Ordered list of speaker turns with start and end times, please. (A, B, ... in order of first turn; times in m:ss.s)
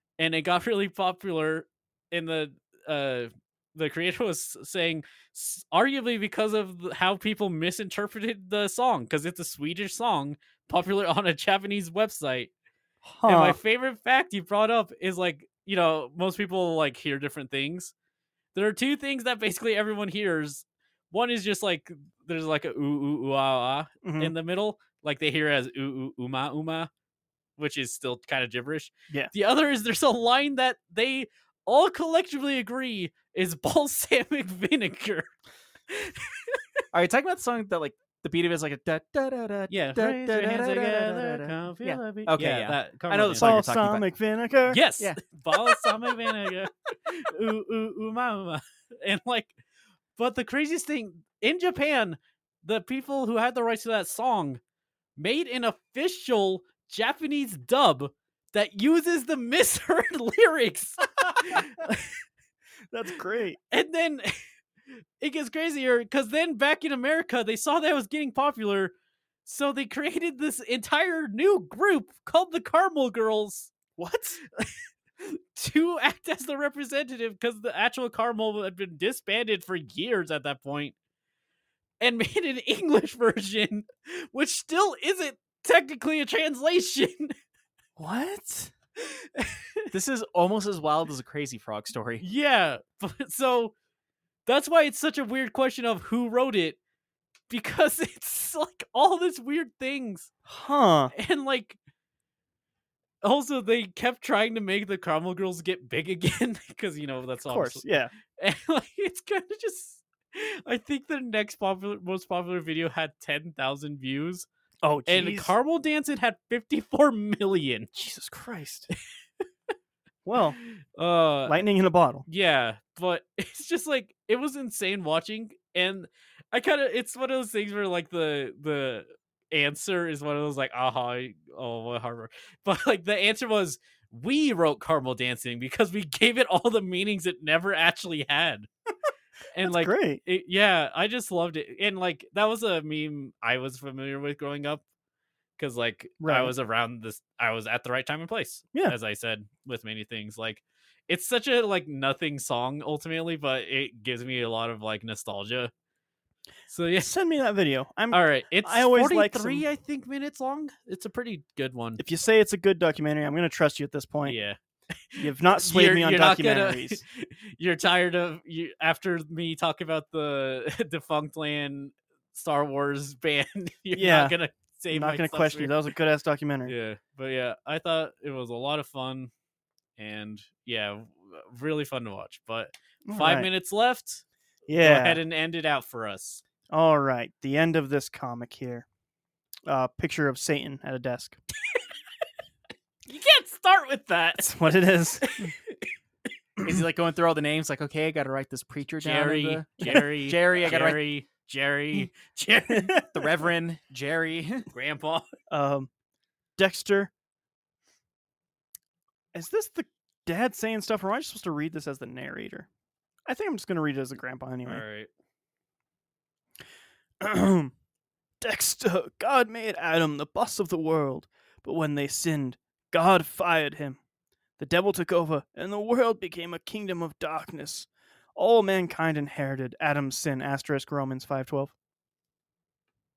0:00.2-0:12.5 A
0:13.0-0:13.6 B
0:13.2-0:17.9 A
0:18.5-0:26.9 A
0:24.0-0:24.3 B
0:27.6-0:35.3 A
0:35.9-0:36.8 A
0:36.9-0:44.1 C
0:39.7-0:43.6 A
0:43.4-0:44.8 B
0:44.7-0:49.5 A
0:50.2-0:54.6 A
0:55.2-1:02.1 A
1:01.2-1:01.8 B
1:02.9-1:03.6 B
1:03.7-1:04.3 A
1:05.2-1:08.9 A
1:09.4-1:13.7 A
1:14.0-1:14.4 C
1:14.6-1:20.9 A
1:22.0-1:27.3 A
1:28.0-1:28.7 B
1:29.3-1:29.8 A
1:29.9-1:32.2 C
1:32.2-1:33.7 A
1:34.4-1:36.8 A
1:37.5-1:40.3 A
1:40.5-1:41.1 B
1:41.1-1:41.8 A
1:43.2-1:54.5 A
1:47.4-1:48.1 B
1:54.8-1:55.6 B
1:55.1-1:58.0 A
1:58.0-1:58.9 B
2:00.2-2:00.6 B
2:00.6-2:01.6 A
2:01.5-2:02.2 B
2:02.3-2:18.7 A
2:19.5-2:24.8 A
2:19.6-2:20.2 B
2:25.6-2:35.7 A
2:26.2-2:26.5 B
2:36.7-2:37.1 A
2:37.0-2:39.6 B
2:38.1-2:42.0 A
2:42.0-2:44.4 B
2:44.2-2:44.6 A
2:45.1-2:55.7 A
2:45.2-2:47.0 B
2:53.9-2:54.4 B
2:54.9-2:56.7 B
2:56.6-2:59.3 A
3:00.0-3:04.2 A
3:03.1-3:03.5 B
3:04.7-3:05.2 B
3:04.8-3:06.4 A
3:06.7-3:08.8 B
3:09.6-3:11.4 B
3:13.0-3:14.6 A
3:14.4-3:15.5 B
3:15.2-3:15.9 A
3:16.6-3:21.0 C
3:19.0-3:23.0 A
3:19.8-3:20.1 B
3:22.7-3:23.1 B
3:23.1-3:24.7 C
3:24.7-3:25.3 A
3:25.5-3:25.9 B
3:26.6-3:27.1 B
3:29.3-3:32.7 B
3:33.2-3:34.8 B
3:34.6-3:35.1 A
3:37.2-3:37.7 B
3:38.4-3:44.0 B
3:44.6-3:51.7 B